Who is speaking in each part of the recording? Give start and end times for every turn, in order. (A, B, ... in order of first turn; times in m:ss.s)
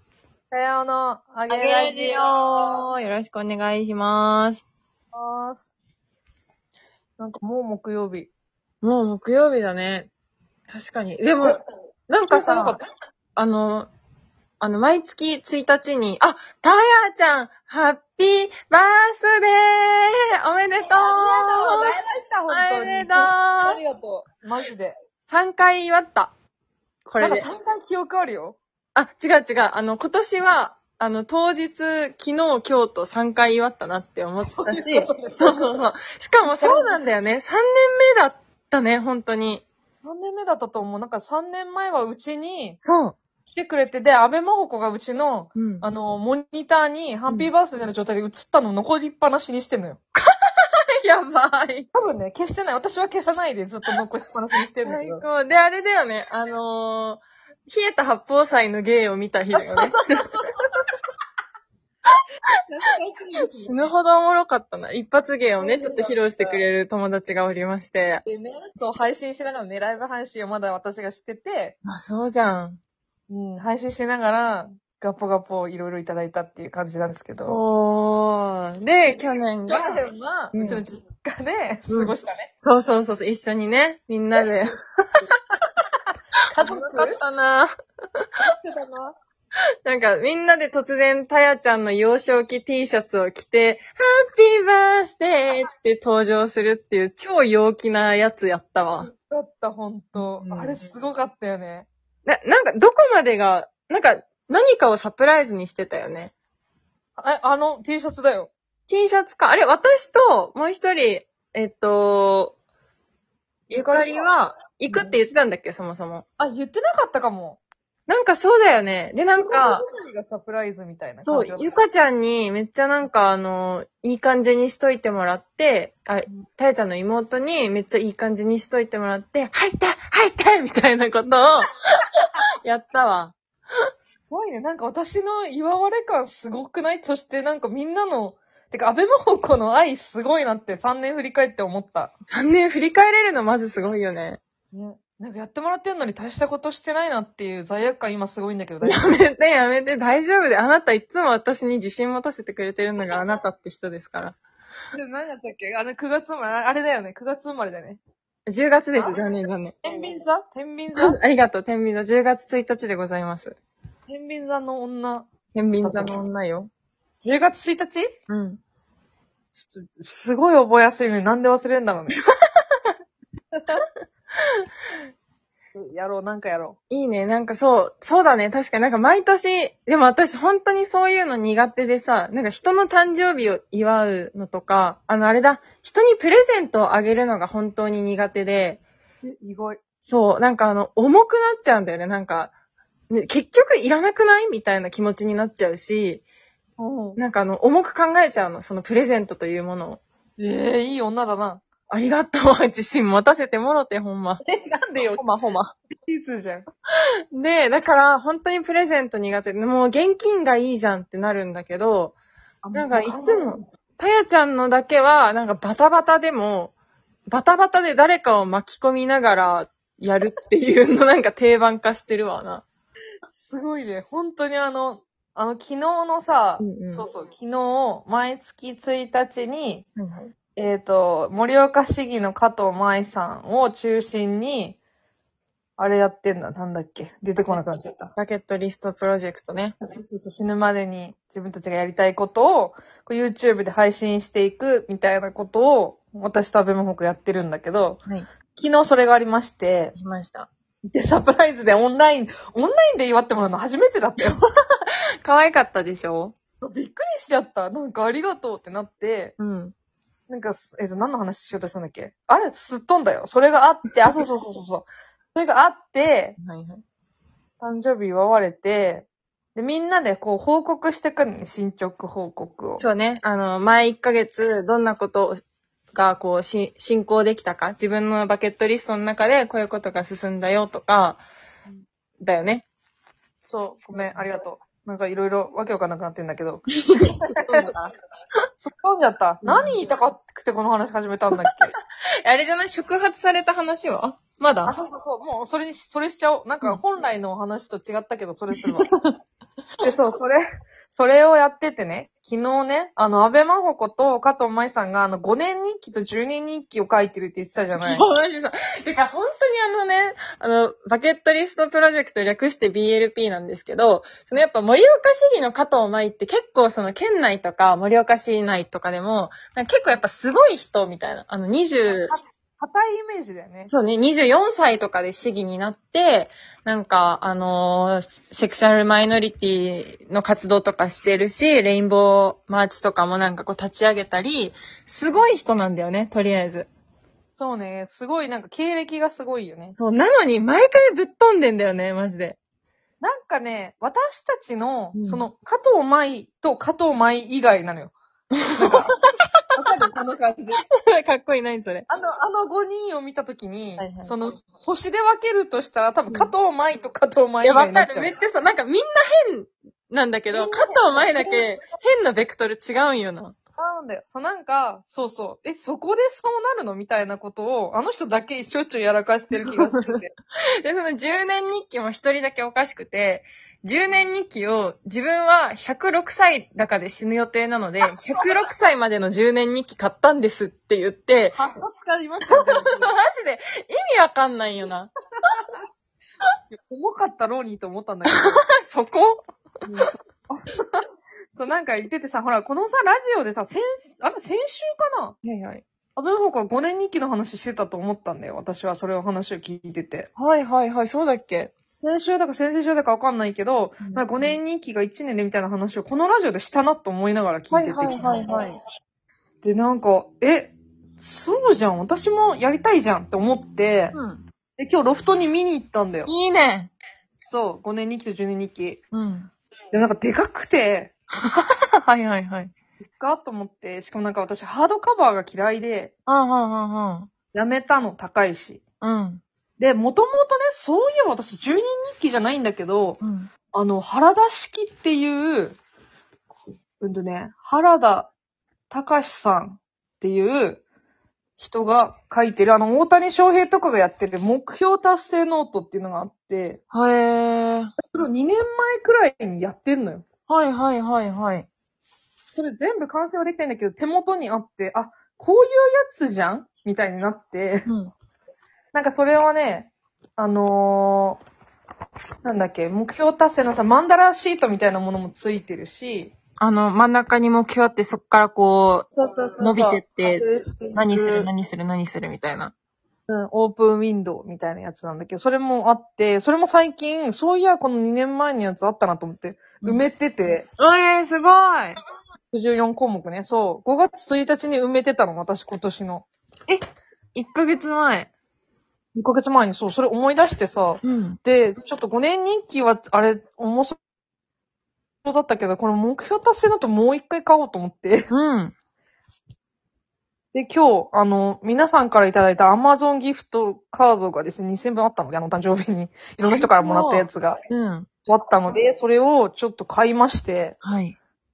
0:00.5-0:02.3 A
0:01.5-0:04.6 B
0:05.1-0:05.7 A
0:07.2-0:08.3 A
0:08.8-0:10.1 B
0:10.7-0:12.8 B
0:12.3-0:12.8 A
0:13.4-0:13.9 B
0:14.6-0:22.0 B
0:21.0-0:25.0 A
0:22.5-0:23.8 B
0:25.3-0:26.3 B
0:27.1-0:27.5 B
0:27.2-0:28.6 A
0:29.0-0:39.6 B
0:34.4-0:35.7 A
0:36.5-0:37.0 A
0:40.0-0:42.8 A
0:42.8-0:43.2 B
0:43.5-0:50.0 A
0:45.6-0:45.9 B
0:50.2-0:51.9 B
0:51.9-0:55.2 A
0:54.8-1:00.0 B
0:59.5-1:00.6 A
1:02.7-1:03.8 A
1:03.5-1:08.2 B
1:05.6-1:06.6 A
1:08.2-1:11.8 A
1:11.8-1:12.8 B
1:13.3-1:17.6 A
1:17.5-1:20.8 B
1:19.7-1:22.5 A
1:21.9-1:24.8 B
1:26.5-1:27.2 A
1:26.6-1:27.7 B
1:28.6-1:29.2 A
1:29.8-1:39.1 B
1:38.9-1:41.9 A
1:40.2-1:40.9 B
1:42.2-1:46.3 B
1:47.2-1:48.5 A
1:48.9-1:52.6 B
1:53.7-1:54.2 A
1:53.7-1:56.2 B
1:54.9-1:55.2 A
1:56.4-1:57.6 A
1:58.1-1:59.8 B
1:59.4-2:01.8 A
2:01.2-2:11.7 B
2:12.6-2:13.4 B
2:14.3-2:22.1 A
2:22.2-2:24.4 B
2:24.7-2:29.2 A
2:28.8-2:34.4 B
2:34.9-2:38.0 A
2:38.5-2:39.8 B
2:39.0-2:39.2 A
2:39.8-2:41.2 A
2:40.9-2:43.6 B
2:44.1-2:45.3 A
2:45.5-2:46.7 B
2:45.8-2:46.1 A
2:47.2-2:48.1 A
2:48.3-2:48.6 B
2:49.5-2:52.2 A
2:55.8-2:56.8 A
2:56.9-3:08.8 B
3:09.3-3:09.8 A
3:10.0-3:12.5 B
3:13.1-3:16.2 B
3:16.8-3:17.2 A
3:17.2-3:20.0 B
3:20.4-3:21.6 A
3:21.9-3:24.4 B
3:24.4-3:25.3 A
3:25.0-3:25.8 B
3:26.1-3:26.7 A
3:27.3-3:32.2 B
3:32.6-3:33.6 A
3:32.7-3:36.7 B
3:37.3-3:42.6 B
3:43.3-3:49.9 A
3:46.6-3:47.1 B
3:50.0-3:50.3 B
3:50.6-3:54.8 A
3:55.8-3:58.1 A
3:58.1-3:59.8 B
3:59.8-4:08.0 A
4:08.6-4:10.0 A
4:10.0-4:10.5 B
4:10.9-4:14.4 A
4:15.2-4:16.4 B
4:16.6-4:19.4 A
4:19.4-4:19.7 B
4:20.3-4:26.4 A
4:26.4-4:26.8 B
4:27.6-4:32.8 A
4:32.8-4:35.4 B
4:35.9-4:41.2 B
4:42.2-4:42.6 B
4:43.5-4:46.7 A
4:43.9-4:44.3 B
4:46.9-4:47.9 B
4:47.4-4:47.7 A
4:48.6-4:51.7 A
4:49.4-4:49.8 B
4:52.2-4:54.8 B
4:54.6-4:58.9 A
4:58.6-4:59.1 B
4:59.8-5:08.0 A
5:07.8-5:22.1 B
5:21.9-5:23.7 A
5:23.7-5:36.7 B
5:37.3-5:39.8 A
5:39.7-5:42.4 B
5:43.0-5:48.0 A
5:45.0-5:45.3 B
5:48.5-5:49.0 A
5:48.6-5:48.9 B
5:49.6-5:50.6 A
5:50.9-5:51.9 B
5:51.9-5:58.1 A
5:53.8-5:54.1 B
5:57.4-6:03.4 B
6:00.3-6:01.6 A
6:03.6-6:10.1 A
6:09.4-6:10.0 B
6:10.6-6:21.4 B
6:21.3-6:23.0 A
6:22.3-6:24.9 B
6:26.5-6:28.4 A
6:28.2-6:29.9 B
6:29.7-6:30.4 A
6:31.3-6:35.2 A
6:35.2-6:35.6 B
6:36.0-6:40.1 A
6:40.2-6:41.5 B
6:41.8-6:48.4 A
6:43.8-6:44.4 B
6:47.5-6:48.6 B
6:49.4-6:54.0 A
6:53.9-6:54.2 B
6:54.6-6:56.1 A
6:56.1-6:56.7 B
6:57.2-6:58.8 A
6:58.9-6:59.3 B
6:59.7-7:00.9 A
7:01.3-7:02.5 B
7:02.8-7:05.9 A
7:06.1-7:07.1 B
7:07.3-7:08.6 A
7:08.8-7:09.2 B
7:09.6-7:13.0 A
7:13.0-7:13.3 B
7:13.5-7:15.6 A
7:16.8-7:18.1 A
7:18.7-7:20.6 A
7:21.4-7:26.6 A
7:26.7-7:27.7 B
7:27.9-7:30.0 A
7:30.3-7:31.5 B
7:32.3-7:37.7 A
7:37.7-7:37.9 B
7:38.7-7:41.2 A
7:42.2-7:46.1 A
7:46.4-7:52.5 B
7:48.9-7:51.3 A
7:53.1-8:00.5 A
8:00.6-8:01.8 B
8:02.3-8:06.0 A
8:07.2-8:08.1 B
8:09.0-8:13.8 A
8:10.8-8:11.2 B
8:15.0-8:18.1 A
8:18.1-8:18.5 B
8:20.3-8:27.4 A
8:26.2-8:27.9 B
8:28.1-8:30.6 A
8:30.6-8:31.0 B